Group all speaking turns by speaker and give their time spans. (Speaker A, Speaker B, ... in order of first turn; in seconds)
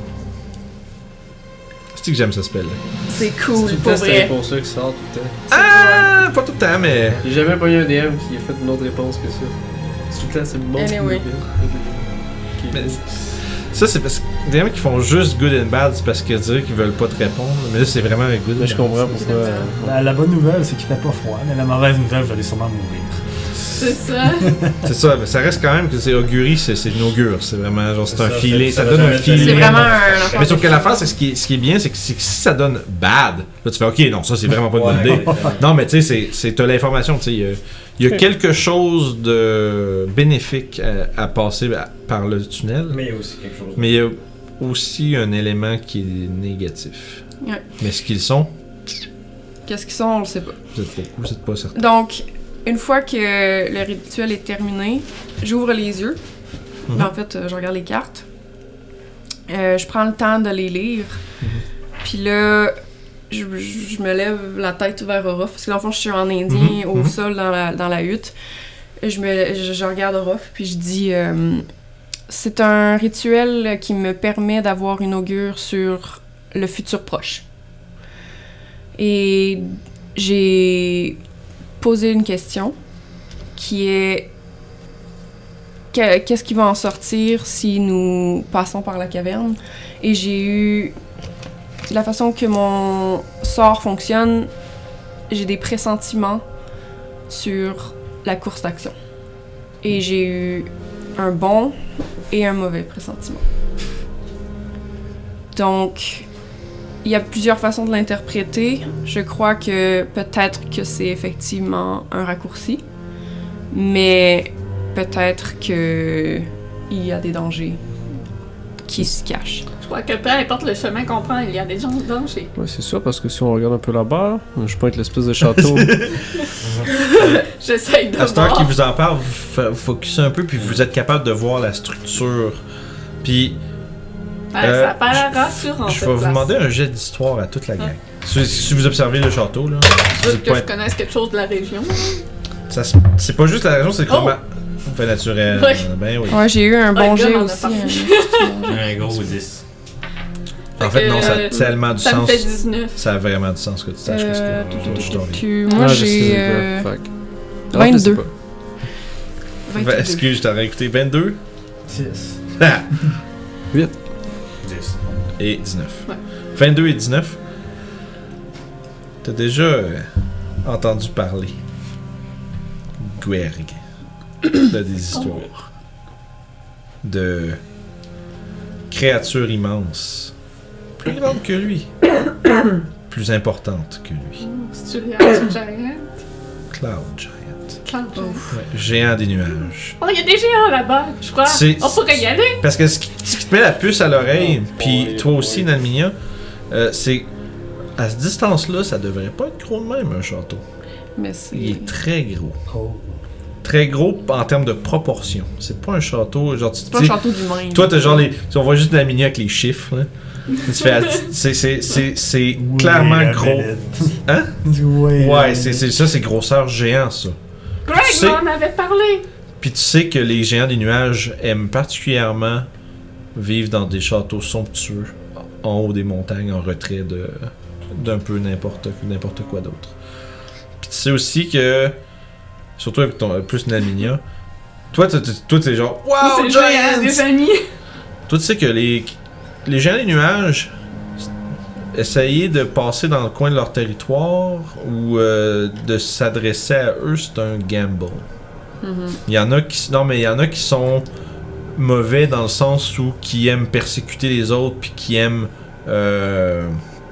Speaker A: 1.9-2.8, 5.5-7.2, 12.7-19.2, 24.8-43.0, 43.8-47.2, 47.8-48.5, 50.7-51.8, 66.5-67.1, 125.8-126.1, 128.2-132.6, 133.2-133.6, 134.6-140.7, 142.7-146.5, 150.8-155.5, 159.7-161.4, 162.6-162.9, 165.4-167.4, 169.2-170.1, 170.6-171.6, 173.0-173.8, 174.4-175.6, 177.0-177.6, 178.9-180.3, 181.0-181.9, 183.1-184.4, 186.7-187.8, 188.5-190.0, 191.4-196.2, 196.7-197.3, 197.9-200.6, 201.5-202.6, 203.6-213.7, 214.2-214.6, 215.1-217.4, 217.9-218.4, 219.6-222.7, 223.3-229.9, 230.8-232.0, 232.8-234.2, 234.9-237.2, 238.3-240.7, 241.9-248.2, 249.2-251.1, 251.7-256.8
Speaker B: 3.1-4.3, 5.5-6.1, 10.7-11.3, 19.1-19.7, 29.3-31.0, 49.6-50.6, 51.7-56.2, 56.9-58.2, 59.5-61.2, 62.0-62.8, 63.3-68.3, 69.0-71.7, 72.3-77.4, 79.0-81.2, 81.8-82.7, 83.5-84.3, 85.9-90.9, 91.9-94.5, 95.3-96.4, 97.3-99.0, 99.8-101.8, 102.3-103.4, 105.5-106.3, 107.0-112.8, 113.7-117.8, 118.8-119.7, 146.3-148.8, 154.1-157.1, 157.7-158.3, 159.7-160.3, 188.1-188.5, 201.2-201.9, 206.9-208.3, 248.8-249.2
Speaker C: 3.5-5.5, 7.2-9.5, 10.1-13.0, 18.6-20.0, 122.5-126.1, 155.7-157.1, 157.7-158.3, 163.7-164.0, 194.4-195.6
Speaker D: 19.8-23.3, 24.2-24.8, 35.1-35.5, 161.9-162.4, 202.7-203.2, 212.6-215.9
Speaker E: 23.8-24.6, 119.8-122.5, 126.9-128.7, 134.5-136.5, 140.1-142.2, 144.1-144.4, 145.5-145.9, 146.9-148.8, 150.8-153.0, 155.7-156.0, 184.4-186.1, 187.8-188.4, 190.0-192.6, 217.8-219.2, 236.2-237.7
Speaker F: 28.1-30.6, 34.7-35.8, 42.9-44.0, 126.6-126.9, 130.6-130.8, 148.6-149.6, 154.8-155.1, 164.6-165.0